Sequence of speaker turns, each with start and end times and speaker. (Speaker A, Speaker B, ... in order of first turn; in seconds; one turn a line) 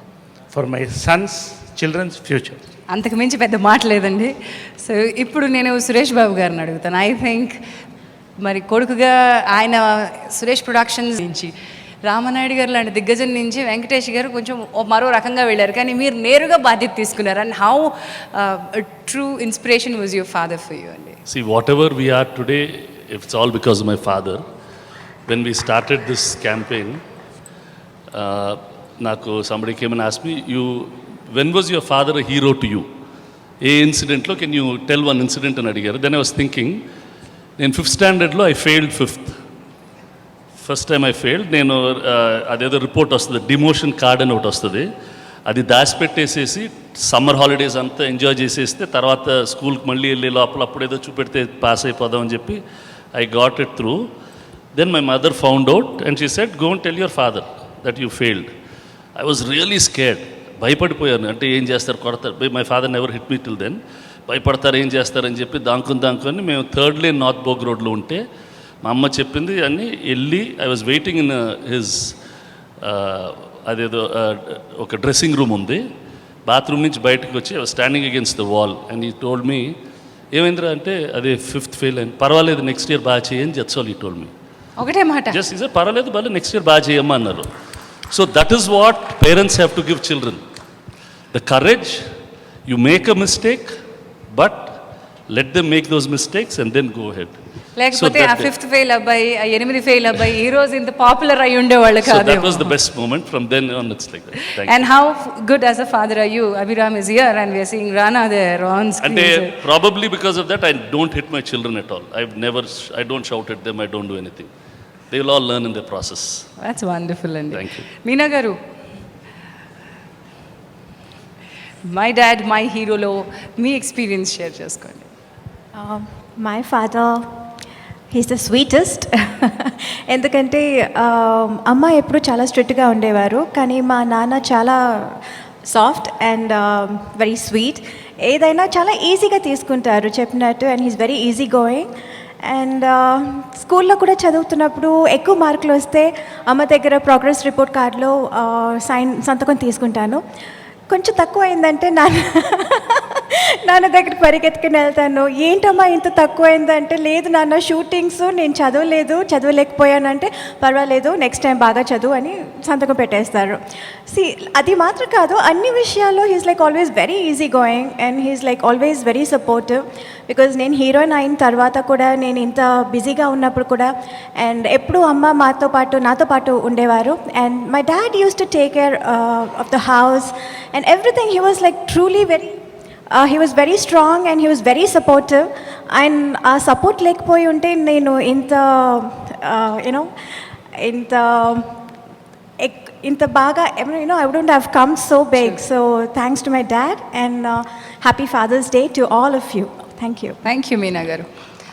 Speaker A: 0.5-2.6
Speaker B: 2.9-7.6
Speaker B: 8.4-11.5
Speaker B: 12.0-21.1
Speaker C: 21.3-24.4
Speaker C: 25.3-27.0
Speaker C: 28.1-32.9
Speaker C: 33.6-36.8
Speaker C: 37.6-39.4
Speaker C: 40.6-44.9
Speaker C: 45.5-52.6
Speaker C: 53.1-54.0
Speaker C: 54.8-58.5
Speaker C: 59.2-68.2
Speaker C: 68.8-72.1
Speaker C: 72.8-75.8
Speaker C: 76.5-79.7
Speaker C: 80.3-84.3
Speaker B: 84.8-85.4
Speaker C: 85.3-87.5
Speaker C: 88.1-90.4
Speaker C: 91.3-92.0
Speaker C: 92.7-93.7
Speaker C: 94.3-94.8
Speaker C: 95.3-97.3
Speaker B: 97.8-102.7
Speaker C: 97.9-98.5
Speaker C: 102.0-104.8
Speaker B: 104.6-109.5
Speaker C: 109.0-114.5
Speaker C: 115.1-116.5
Speaker B: 116.6-118.5
Speaker C: 117.5-117.8
Speaker B: 121.8-125.1
Speaker D: 125.7-127.2
Speaker D: 128.1-141.9
Speaker D: 142.4-150.2
Speaker D: 150.9-163.6
Speaker D: 164.1-182.6
Speaker D: 183.1-190.1
Speaker D: 190.8-191.7
Speaker D: 192.6-200.4
Speaker B: 200.4-201.2